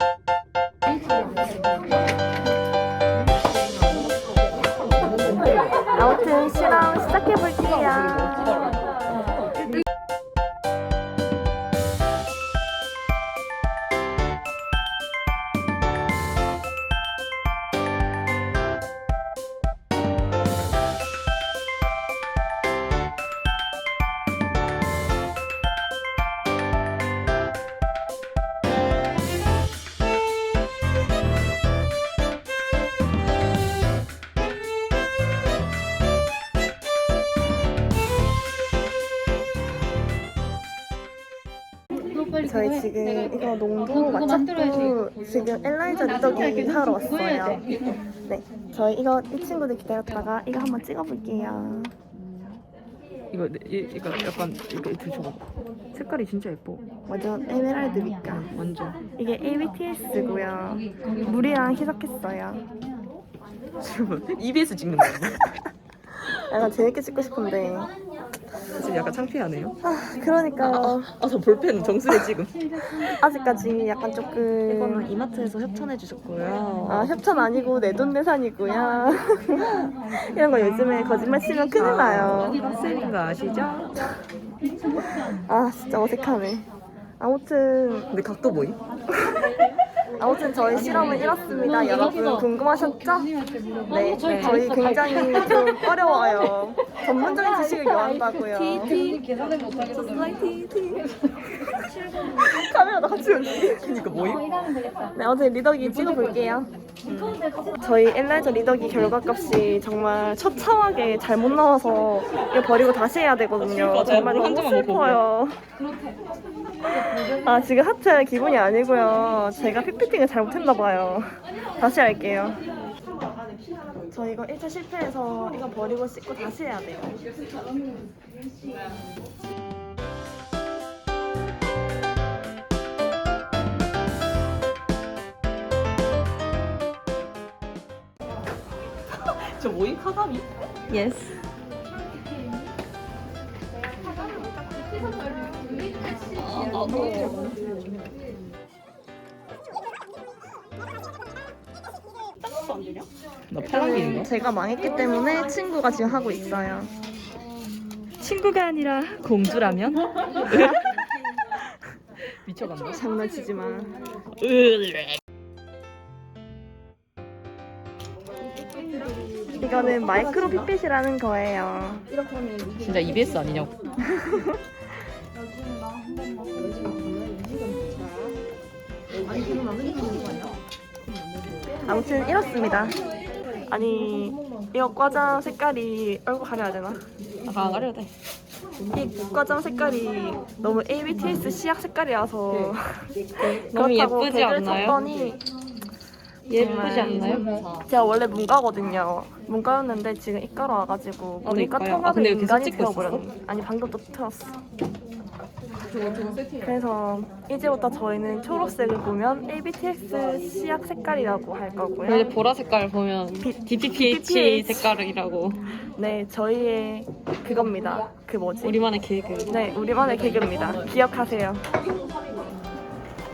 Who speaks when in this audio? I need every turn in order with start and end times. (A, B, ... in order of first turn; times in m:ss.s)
0:05.1-0:05.8 A
0:05.9-0:08.6 B
0:07.5-0:09.5 A
0:42.3-0:47.7 B
0:48.3-0:51.9 B
0:53.3-0:56.8 A
0:57.1-0:58.5 B
0:58.3-0:59.0 A
0:59.2-1:02.7 B
1:03.8-1:05.6 A
1:06.3-1:07.9 B
1:08.7-1:09.8 A
1:09.8-1:11.1 B
1:10.6-1:13.2 A
1:13.0-1:15.1 B
1:14.6-1:17.2 A
1:16.8-1:22.7 B
1:21.7-1:24.0 A
1:25.2-1:26.7 B
1:27.2-1:28.1 B
1:28.1-1:28.8 A
1:29.2-1:29.4 B
1:30.2-1:39.0 B
1:33.9-1:35.9 C
1:34.1-1:34.7 A
1:38.8-1:41.0 C
1:42.3-1:43.8 B
1:43.6-1:44.7 A
1:45.1-1:46.7 B
1:47.0-1:47.4 A
1:47.8-1:55.8 B
1:53.6-1:55.2 A
1:56.8-2:02.6 B
2:04.1-2:07.2 B
2:19.1-2:20.4 A
2:20.9-2:21.4 B
2:26.4-2:27.5 A
2:32.6-2:34.3 A
2:33.6-2:36.9 B
2:38.2-2:40.8 A
2:42.4-2:43.0 A
2:42.9-2:44.0 B
2:44.4-2:45.2 A
2:48.7-2:50.5 C
2:49.6-2:52.0 B
2:52.2-2:52.7 C
2:52.8-2:53.8 A
2:54.1-2:54.6 B
2:56.3-2:57.5 C
2:59.2-3:00.6 C
3:01.3-3:01.7 A
3:01.8-3:03.0 B
3:03.7-3:07.0 B
3:07.4-3:08.1 A
3:08.9-3:15.4 B
3:12.5-3:12.8 A
3:13.5-3:15.0 A
3:16.5-3:17.9 A
3:16.5-3:24.6 B
3:21.4-3:23.3 A
3:25.8-3:26.8 A
3:26.6-3:32.3 B
3:32.1-3:35.6 A
3:33.4-3:34.8 B
3:35.9-3:38.9 B
3:38.9-3:39.4 A
3:39.4-3:41.6 B
3:40.0-3:40.9 A